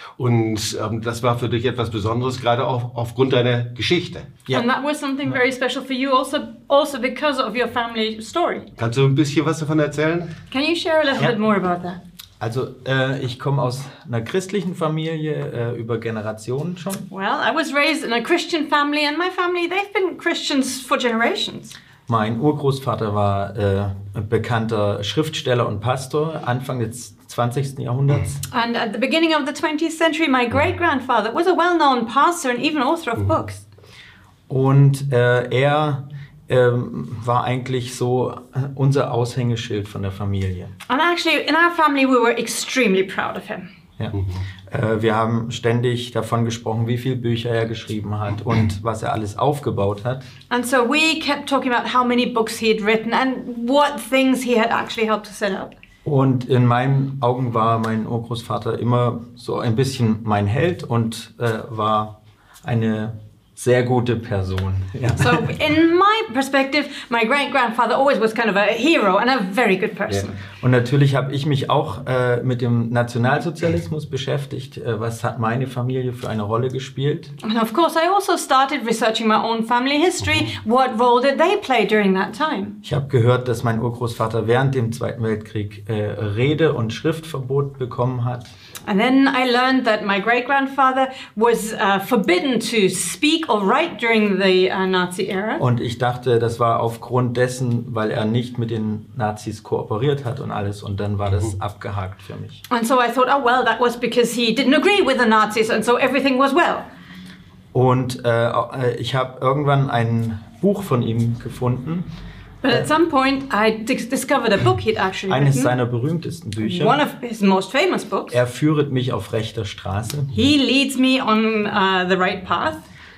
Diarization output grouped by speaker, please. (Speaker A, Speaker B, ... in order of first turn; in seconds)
Speaker A: 0.2-4.3, 8.8-10.3
Speaker B: 4.5-8.7, 10.5-12.0, 17.1-21.7, 28.5-33.6, 40.9-43.7, 50.5-55.7, 65.2-70.4, 77.4-82.8, 88.8-95.6, 102.7-106.8, 112.6-115.7, 116.6-118.4, 120.3-122.8
Speaker C: 12.4-17.1, 22.1-28.4, 34.5-40.7, 44.7-50.3, 56.0-65.5, 70.5-77.3, 82.8-88.5, 95.6-102.6, 107.7-112.1, 115.3-117.0, 118.3-120.3